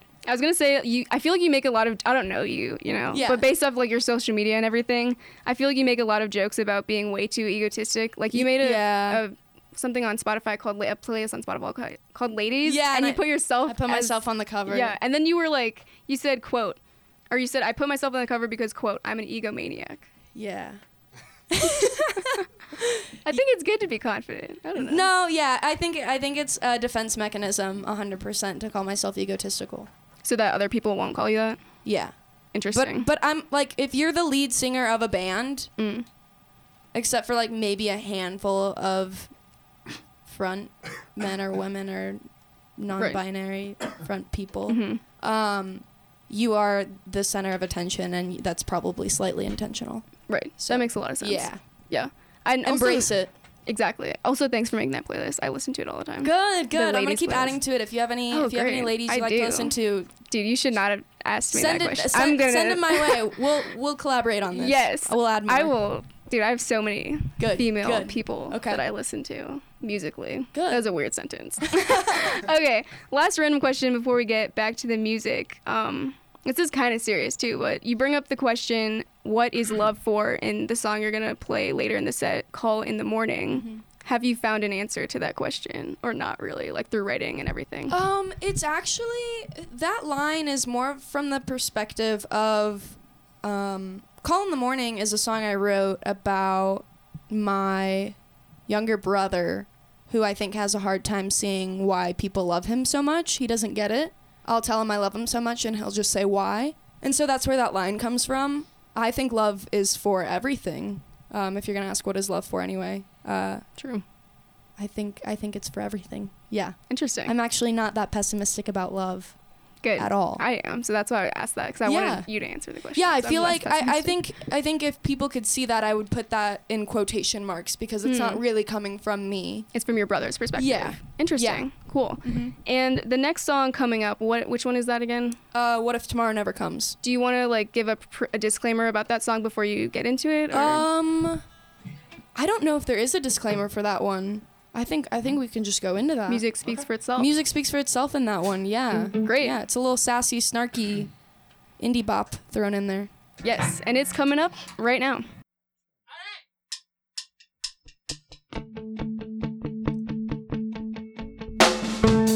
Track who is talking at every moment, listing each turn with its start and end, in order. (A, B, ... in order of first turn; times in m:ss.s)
0:00.2-0:20.1 A
0:03.1-0:03.5 B
0:08.3-0:09.2 B
0:12.6-0:15.0 B
0:20.3-0:20.8 B
0:21.6-0:22.3 B
0:23.2-0:25.1 A
0:24.8-0:29.9 B
0:30.2-0:31.9 A
0:31.8-0:32.2 B
0:32.5-0:33.1 A
0:32.7-0:35.7 B
0:35.8-0:36.1 A
0:36.9-0:39.4 B
0:40.2-0:51.6 B
0:42.9-0:43.2 A
0:44.7-0:45.0 A
0:50.3-0:57.7 A
0:52.6-0:53.3 B
0:56.2-1:00.1 B
0:58.3-1:03.4 A
1:01.5-1:05.7 B
1:04.5-1:28.0 A
1:07.4-1:08.8 B
1:10.5-1:10.8 B
1:23.5-1:23.8 B
1:27.9-1:53.7 B
1:53.8-1:54.0 A
1:54.8-1:59.4 B
1:56.9-1:57.3 A
1:59.8-2:04.2 A
2:00.0-2:00.4 B
2:01.8-2:09.7 B
2:08.0-2:08.4 A
2:09.7-2:15.4 A
2:10.6-2:11.7 B
2:12.2-2:12.5 B
2:15.5-2:17.0 B
2:17.0-2:20.9 A
2:20.5-2:21.4 B
2:22.4-2:26.5 B
2:26.3-2:27.3 A
2:27.2-2:31.1 B
2:29.2-2:29.6 A
2:31.8-2:33.1 B
2:33.4-2:35.3 A